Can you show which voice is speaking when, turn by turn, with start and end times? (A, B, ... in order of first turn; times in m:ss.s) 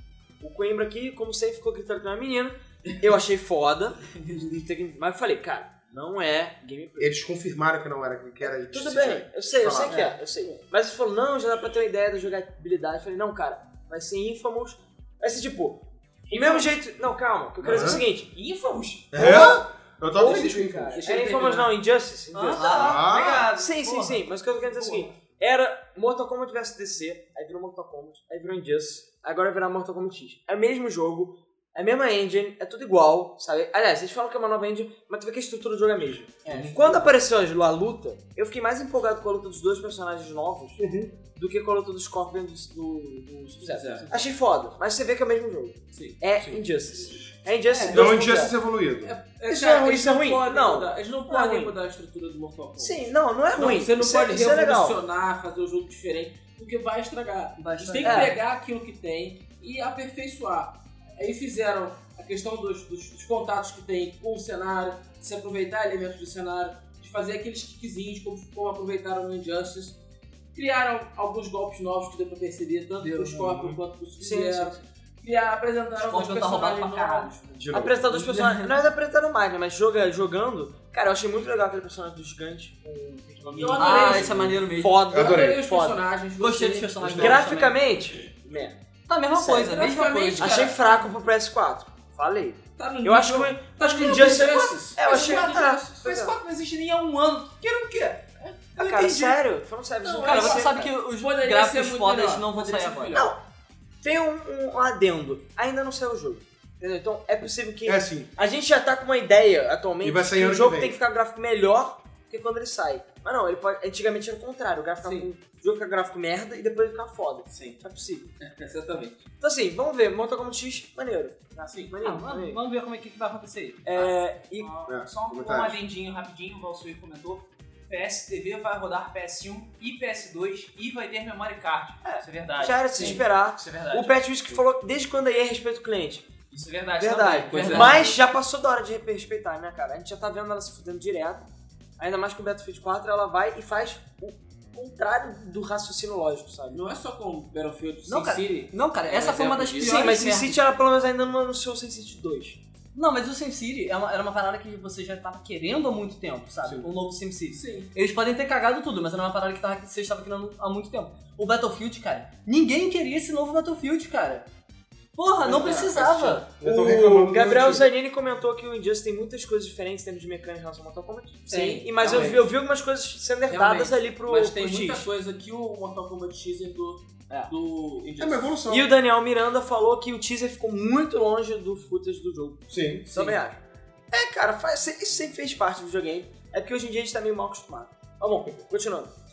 0:00.4-0:07.2 A
0:04.2-0:04.5 B
0:07.0-0:10.0 C
0:08.4-0:18.3 A
0:16.4-0:16.7 D
0:17.6-0:18.0 C
0:18.3-0:19.4 D
0:19.1-0:21.0 C
0:19.2-0:48.5 A
0:20.9-0:21.7 E
0:22.3-0:24.2 B
0:22.5-0:23.8 D
0:22.7-0:23.5 C
0:24.5-0:25.1 D
0:36.5-0:37.0 E
0:36.5-0:37.0 B
0:43.6-0:44.1 E
0:45.9-0:46.2 E
0:46.4-0:46.6 C
0:47.8-0:48.0 B
0:47.8-0:49.2 C
0:49.0-1:10.0 E
0:49.5-0:51.8 A
0:52.8-0:55.0 A
0:57.6-0:58.4 B
0:58.0-0:58.4 A
1:10.5-1:17.3 E
1:13.0-1:13.7 B
1:14.2-1:14.8 A
1:16.0-1:18.8 B
1:17.6-1:18.0 C
1:17.7-1:26.0 A
1:23.5-1:27.4 E
1:23.8-1:25.0 B
1:25.1-1:25.6 C
1:26.4-1:27.8 B
1:27.0-1:27.4 C
1:27.1-1:28.8 A
1:29.1-1:30.7 B
1:29.3-1:29.8 A
1:29.5-1:30.8 E
1:30.4-1:36.4 A
1:32.8-1:35.4 E
1:34.0-1:39.3 D
1:38.8-1:40.9 A
1:39.0-1:39.3 B
1:40.0-1:43.3 E
1:40.2-1:43.3 B
1:43.1-1:43.4 A
1:44.0-1:58.3 A
1:47.8-1:48.3 C
1:50.0-1:51.0 C
1:55.0-1:55.3 E
1:57.5-1:57.8 E
1:58.4-1:59.3 E
1:59.4-2:02.6 A
2:02.0-2:03.8 B
2:03.1-2:14.2 D
2:03.8-2:04.7 A
2:04.9-2:05.8 C
2:12.0-2:16.3 A
2:16.5-2:18.1 D
2:17.0-2:21.5 A
2:17.5-2:18.1 E
2:22.0-2:26.8 A
2:26.7-2:30.2 E
2:28.1-2:30.6 B
2:29.8-2:32.6 A
2:33.0-2:44.5 B
2:37.5-2:37.9 E
2:45.2-2:46.6 B
2:45.4-2:46.4 E
2:46.6-2:47.9 C
2:46.6-2:55.1 A
2:51.5-2:52.5 E
2:51.5-2:51.8 B
2:53.5-2:58.5 E
2:58.2-2:58.9 C
2:58.7-3:03.6 A
3:02.7-3:03.1 C
3:03.1-3:03.4 E
3:04.1-3:09.1 A